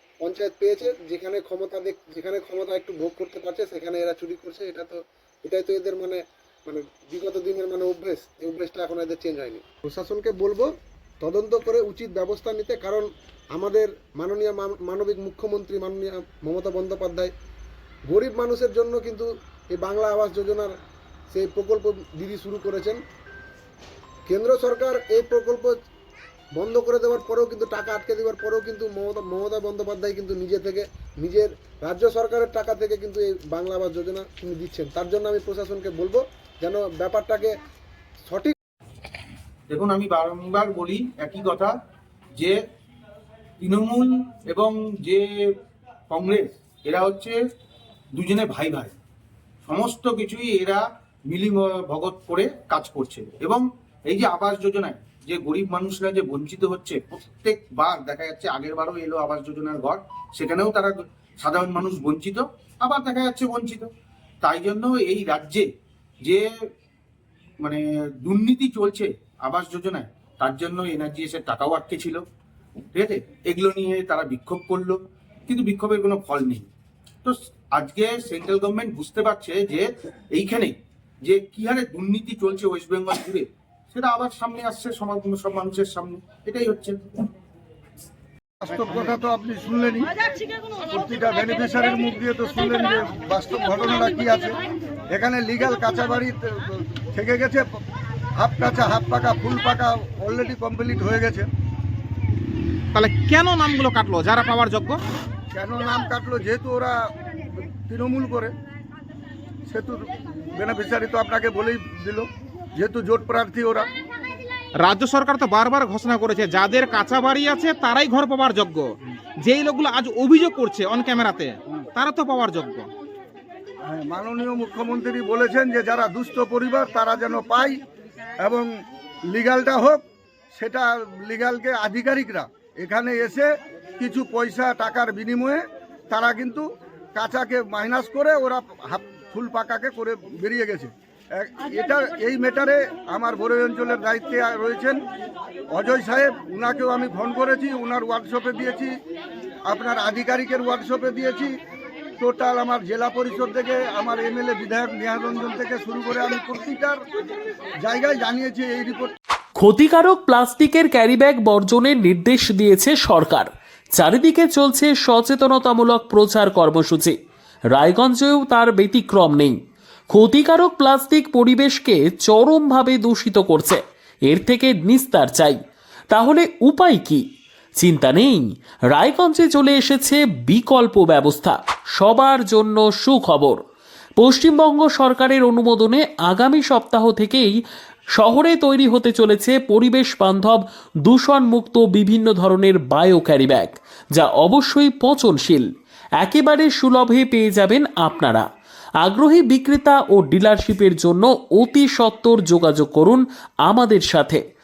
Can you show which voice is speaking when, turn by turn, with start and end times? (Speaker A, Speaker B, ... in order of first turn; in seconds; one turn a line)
Speaker A: 0.2-10.7
Speaker A: 11.2-17.3
Speaker A: 18.1-20.7
Speaker A: 21.3-23.0
Speaker A: 24.3-25.7
Speaker A: 26.6-37.6
Speaker A: 38.3-38.5
Speaker B: 39.7-41.7
Speaker B: 43.6-45.2
Speaker B: 46.1-46.4
Speaker B: 46.9-47.3
Speaker B: 48.2-48.9
Speaker B: 49.7-50.8
Speaker B: 51.3-53.6
Speaker B: 54.1-60.9
Speaker B: 61.6-63.8
Speaker B: 64.5-65.6
Speaker B: 68.3-69.0
Speaker B: 69.5-69.8
Speaker B: 70.5-72.1
Speaker B: 73.0-74.9
Speaker B: 75.5-76.6
Speaker B: 77.8-79.8
Speaker B: 80.4-80.7
Speaker B: 81.3-83.3
Speaker B: 84.0-86.9
Speaker C: 88.6-90.1
Speaker C: 90.9-94.6
Speaker C: 95.1-97.7
Speaker C: 98.4-101.5
Speaker D: 102.9-105.0
Speaker C: 105.5-108.5
Speaker C: 109.7-113.9
Speaker D: 114.8-122.9
Speaker C: 123.9-127.8
Speaker C: 128.4-128.7
Speaker C: 129.3-130.0
Speaker C: 130.5-145.0
Speaker C: 145.7-148.9
Speaker C: 149.7-151.5
Speaker C: 152.2-157.0
Speaker C: 157.8-159.1
Speaker E: 159.6-167.2
Speaker E: 167.7-169.6
Speaker E: 170.1-175.6
Speaker E: 176.1-177.2
Speaker E: 177.8-183.6
Speaker E: 184.2-187.5
Speaker E: 188.2-195.7
Speaker E: 196.2-198.5
Speaker E: 199.0-204.4